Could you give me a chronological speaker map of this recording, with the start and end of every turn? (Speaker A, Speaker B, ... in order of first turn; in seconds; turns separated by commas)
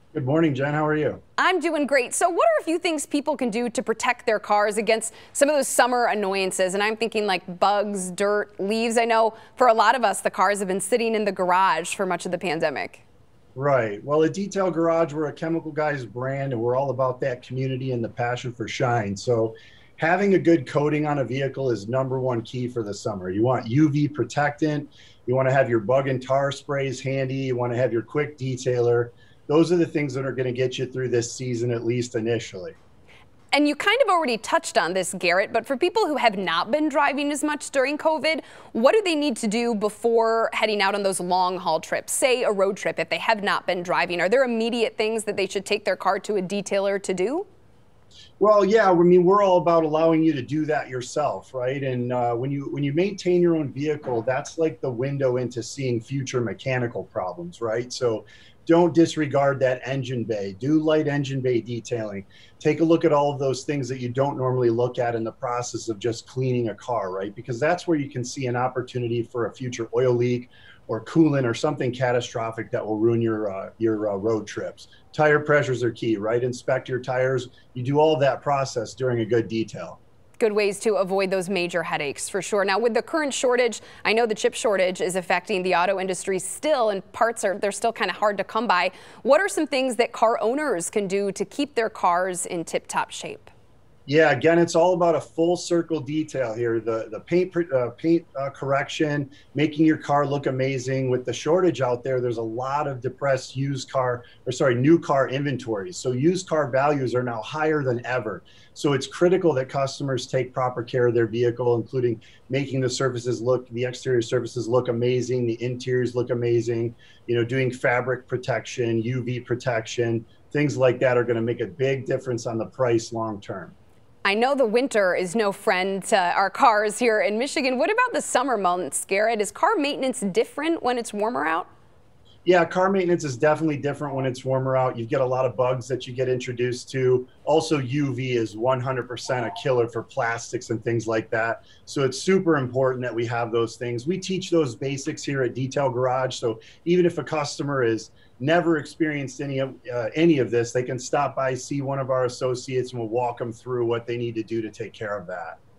Speaker A: 0.1-1.2, Speaker B: 1.4-13.0, Speaker A: 13.5-32.8, Speaker B: 33.5-47.5, Speaker A: 48.4-80.0, Speaker B: 80.4-93.5, Speaker A: 94.1-123.7, Speaker B: 124.2-131.7, Speaker A: 132.4-155.6